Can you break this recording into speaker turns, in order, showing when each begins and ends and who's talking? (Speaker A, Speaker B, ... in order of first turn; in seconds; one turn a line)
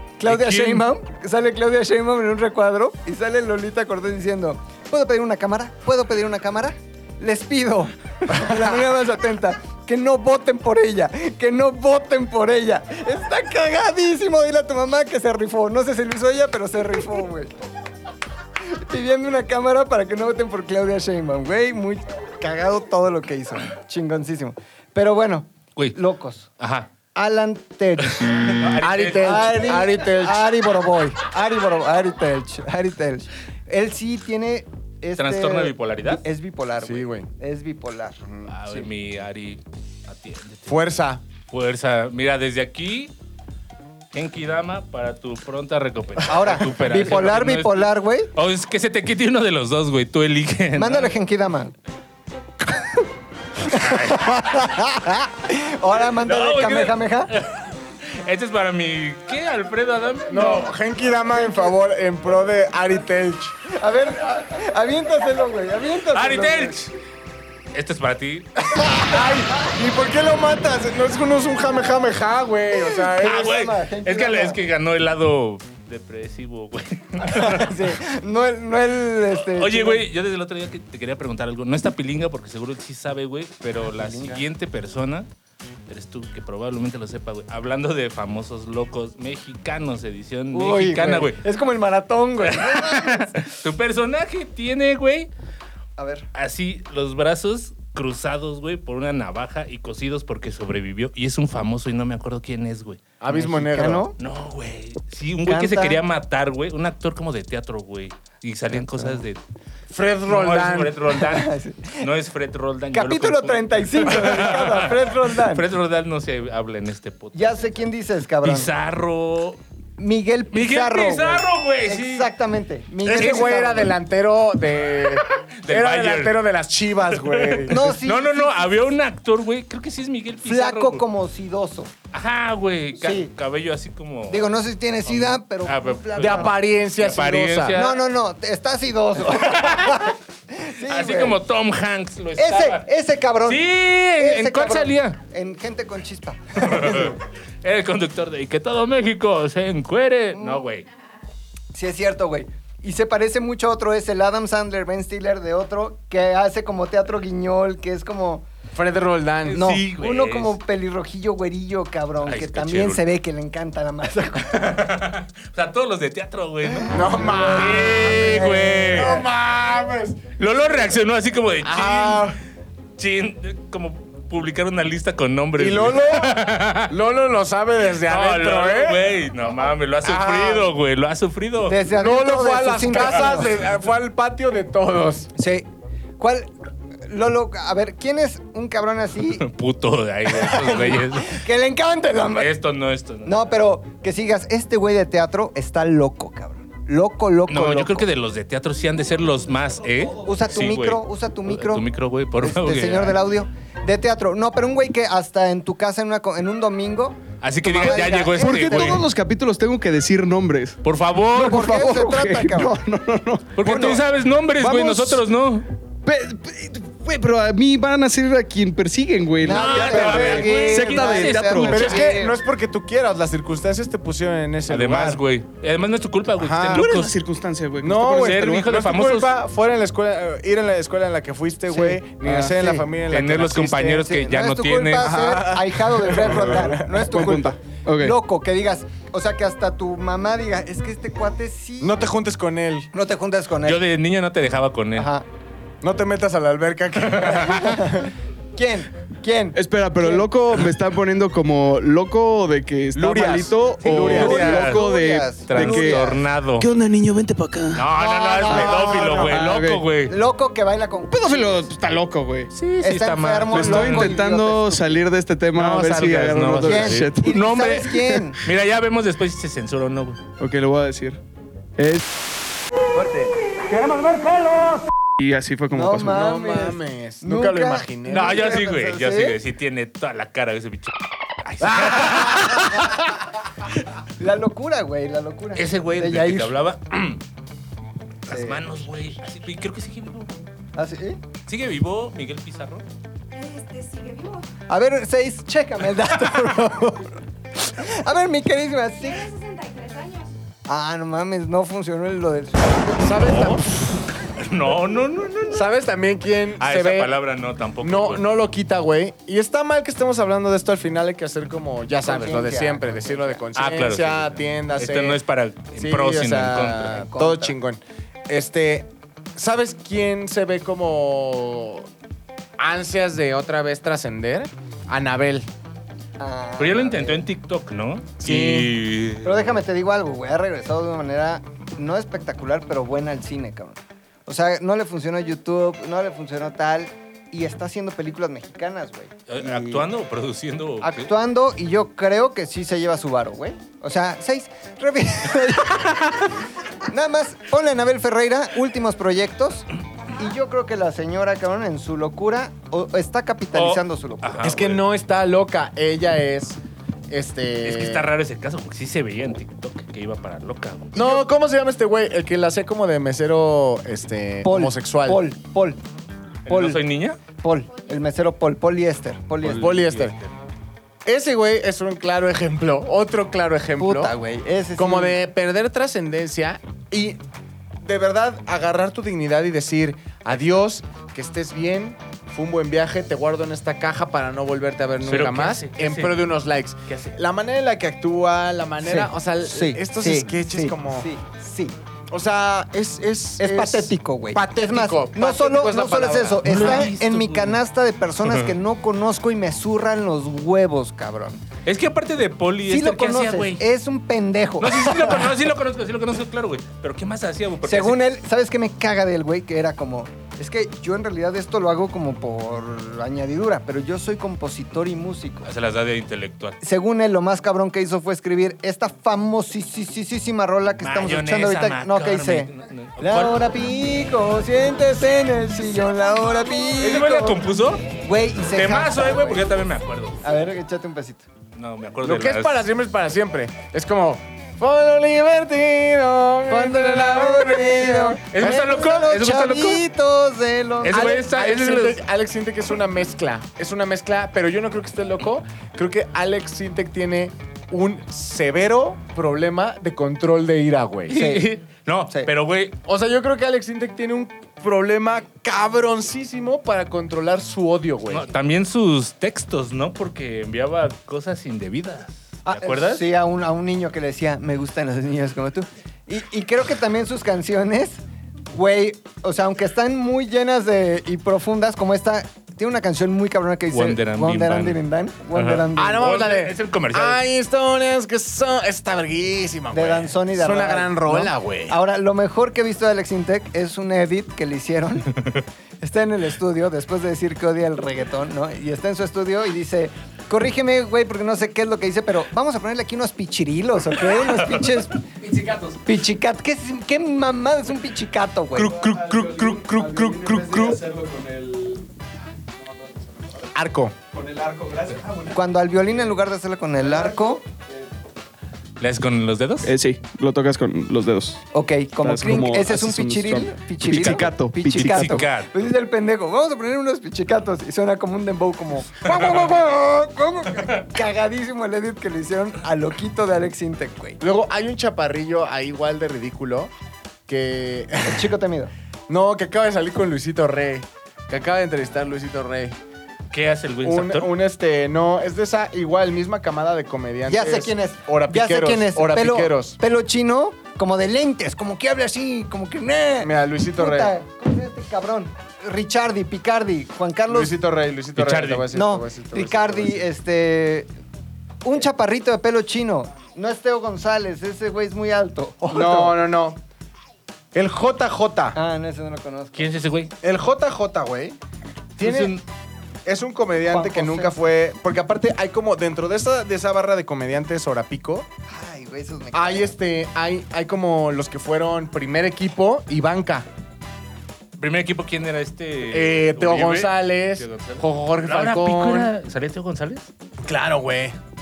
Speaker A: 0.2-17.5
Speaker B: 0.2-0.8
Speaker A: 18.6-26.5
Speaker B: 26.6-26.9
Speaker A: 27.1-38.9
Speaker B: 28.1-29.6
Speaker C: 28.8-30.5
Speaker B: 35.2-36.2
Speaker C: 36.8-37.3
Speaker B: 38.5-40.8
Speaker C: 40.7-41.2
Speaker B: 41.5-43.1
Speaker B: 44.1-51.1
Speaker A: 46.2-48.3
Speaker A: 50.8-51.7
Speaker A: 53.6-57.3
Speaker B: 53.7-54.6
Speaker B: 56.2-60.7
Speaker C: 60.3-63.6
Speaker A: 63.7-66.8
Speaker B: 66.1-66.9
Speaker B: 67.7-68.5
Speaker A: 68.8-69.1
Speaker C: 69.0-73.5
Speaker A: 73.1-74.6
Speaker B: 73.2-78.0
Speaker A: 77.2-80.0
Speaker B: 79.3-85.3
Speaker A: 83.9-84.4
Speaker B: 85.9-91.4
Speaker A: 90.5-93.4
Speaker B: 92.4-95.3
Speaker A: 96.0-96.3
Speaker B: 96.3-103.5
Speaker C: 103.2-104.1
Speaker A: 103.5-104.2
Speaker B: 104.2-109.4
Speaker A: 105.5-106.0
Speaker C: 109.9-111.0
Speaker B: 110.3-117.7
Speaker A: 111.2-112.1
Speaker A: 112.9-115.7
Speaker A: 117.3-118.7
Speaker B: 118.4-119.6
Speaker A: 120.0-124.0
Speaker B: 120.5-122.3
Speaker C: 123.0-128.0
Speaker B: 123.1-123.6
Speaker B: 125.2-126.4
Speaker B: 127.1-131.0
Speaker A: 127.7-128.9
Speaker A: 130.4-131.9
Speaker B: 132.1-138.0
Speaker A: 133.0-133.3
Speaker A: 134.3-136.5
Speaker C: 136.2-137.8
Speaker A: 137.7-141.4
Speaker B: 139.3-140.1
Speaker B: 140.8-142.9
Speaker A: 142.4-143.7
Speaker B: 143.4-145.2
Speaker A: 144.2-147.2
Speaker B: 146.6-150.9
Speaker A: 150.3-150.7
Speaker A: 151.7-158.5
Speaker C: 158.7-159.7
Speaker B: 159.5-160.6
Speaker A: 159.5-164.8
Speaker B: 162.2-163.0
Speaker B: 164.5-169.2
Speaker A: 166.9-169.1
Speaker C: 166.9-170.3
Speaker B: 170.4-172.4
Speaker C: 171.6-172.4
Speaker B: 173.0-176.9
Speaker C: 175.6-179.1
Speaker B: 178.0-181.8
Speaker C: 180.0-180.7
Speaker A: 181.7-183.5
Speaker C: 181.9-185.3
Speaker A: 185.4-185.7
Speaker A: 186.2-186.5
Speaker A: 187.1-189.4
Speaker B: 189.4-191.4
Speaker A: 190.3-192.5
Speaker B: 192.4-193.4
Speaker A: 193.2-198.1
Speaker B: 197.5-203.2
Speaker A: 200.2-201.8
Speaker A: 202.4-209.0
Speaker B: 207.4-209.0
Speaker D: 207.8-210.8
Speaker B: 210.8-211.8
Speaker A: 211.3-212.8
Speaker D: 211.3-213.8
Speaker B: 213.6-215.7
Speaker A: 213.6-214.0
Speaker D: 214.6-215.2
Speaker D: 216.1-222.1
Speaker A: 219.4-222.4
Speaker B: 219.5-222.1
Speaker C: 221.7-225.2
Speaker B: 224.7-227.2
Speaker C: 226.4-226.9
Speaker D: 226.7-228.6
Speaker C: 227.8-234.0
Speaker B: 228.1-229.3
Speaker A: 232.2-232.8
Speaker B: 233.1-235.2
Speaker A: 233.9-242.0
Speaker C: 235.0-237.1
Speaker D: 236.3-238.2
Speaker C: 241.8-242.9
Speaker A: 242.9-243.8
Speaker B: 243.7-245.1
Speaker A: 245.0-245.2
Speaker C: 245.8-248.1
Speaker B: 247.1-247.6
Speaker A: 247.4-250.2
Speaker D: 249.5-257.9
Speaker C: 252.9-254.6
Speaker A: 253.8-256.2
Speaker B: 254.0-254.8
Speaker B: 255.5-256.7
Speaker B: 257.7-260.1
Speaker A: 257.9-259.4
Speaker C: 258.5-259.3
Speaker D: 259.3-259.8
Speaker A: 260.1-261.7
Speaker D: 261.1-262.5
Speaker B: 262.5-264.2
Speaker A: 262.8-265.0
Speaker D: 263.5-267.4
Speaker B: 265.6-270.2
Speaker A: 266.6-268.4
Speaker D: 270.4-271.2
Speaker D: 271.8-272.2
Speaker D: 275.2-276.2
Speaker A: 275.7-279.4
Speaker C: 276.1-278.5
Speaker B: 278.1-283.1
Speaker A: 284.2-286.6
Speaker B: 285.6-287.2
Speaker B: 288.3-290.4
Speaker A: 288.3-288.6
Speaker A: 290.8-291.2
Speaker B: 291.5-292.9
Speaker E: 293.3-294.5
Speaker A: 294.7-299.3
Speaker E: 299.0-300.3
Speaker A: 300.7-303.2
Speaker C: 303.0-303.8
Speaker B: 303.2-305.7
Speaker C: 305.5-307.2
Speaker B: 306.6-308.3
Speaker C: 307.8-315.2
Speaker A: 312.0-313.4
Speaker B: 313.6-317.0
Speaker C: 315.8-321.9
Speaker A: 316.8-317.5
Speaker C: 322.6-325.5
Speaker A: 326.2-327.2
Speaker B: 326.6-329.5
Speaker C: 328.2-328.7
Speaker A: 329.2-339.9
Speaker B: 339.3-341.1
Speaker A: 340.8-354.6
Speaker E: 350.0-350.3
Speaker B: 353.5-354.8
Speaker C: 354.4-356.6
Speaker C: 357.1-358.1
Speaker B: 357.6-360.9
Speaker A: 360.9-361.3
Speaker C: 360.9-365.2
Speaker A: 364.4-365.8
Speaker B: 366.5-367.2
Speaker A: 366.5-366.8
Speaker A: 367.4-369.8
Speaker B: 369.4-370.3
Speaker C: 369.4-370.2
Speaker C: 371.1-374.1
Speaker A: 373.8-375.2
Speaker C: 374.8-377.2
Speaker C: 377.8-391.1
Speaker B: 385.0-386.3
Speaker B: 386.9-387.1
Speaker A: 388.8-391.8
Speaker C: 392.1-396.9
Speaker A: 393.4-401.4
Speaker B: 396.5-397.6
Speaker B: 398.2-398.6
Speaker B: 401.7-403.6
Speaker A: 402.7-405.3
Speaker B: 404.6-408.0
Speaker A: 407.6-415.5
Speaker B: 415.4-416.6
Speaker A: 416.6-429.5
Speaker B: 420.8-423.5
Speaker B: 426.8-427.8
Speaker B: 428.5-430.2
Speaker A: 430.2-431.2
Speaker B: 431.6-432.6
Speaker C: 432.0-438.8
Speaker A: 436.5-441.1
Speaker B: 438.3-439.8
Speaker B: 440.8-442.0
Speaker C: 440.9-451.2
Speaker A: 451.1-451.5
Speaker B: 451.1-452.8
Speaker C: 452.9-458.3
Speaker B: 458.1-463.1
Speaker A: 462.4-468.0
Speaker A: 468.5-476.1
Speaker B: 473.7-474.8
Speaker B: 475.3-477.2
Speaker C: 475.8-481.8
Speaker A: 479.7-485.1
Speaker B: 485.2-485.4
Speaker A: 485.8-495.0
Speaker A: 495.7-498.9
Speaker B: 498.6-500.8
Speaker D: 499.1-501.9
Speaker C: 503.5-504.0
Speaker D: 504.2-505.3
Speaker A: 505.3-507.4
Speaker B: 508.8-509.7
Speaker D: 509.6-511.4
Speaker A: 511.5-524.2
Speaker D: 512.0-515.3
Speaker B: 513.9-515.5
Speaker C: 524.2-526.7
Speaker C: 527.3-528.3
Speaker A: 528.0-528.7
Speaker C: 529.1-532.8
Speaker B: 533.3-534.3
Speaker C: 533.8-539.8
Speaker A: 537.3-547.5
Speaker C: 543.2-544.1
Speaker C: 547.3-550.1
Speaker B: 548.2-548.7
Speaker A: 548.7-550.9
Speaker A: 551.6-556.2
Speaker C: 555.7-556.6
Speaker C: 557.5-558.6
Speaker A: 558.5-559.7
Speaker B: 559.5-560.1
Speaker C: 560.2-561.4
Speaker C: 562.0-562.4
Speaker B: 562.0-562.4
Speaker C: 563.1-568.3
Speaker A: 563.7-564.4
Speaker A: 568.5-569.7
Speaker C: 569.3-573.5
Speaker B: 574.6-580.1
Speaker C: 575.9-579.1
Speaker C: 580.5-581.2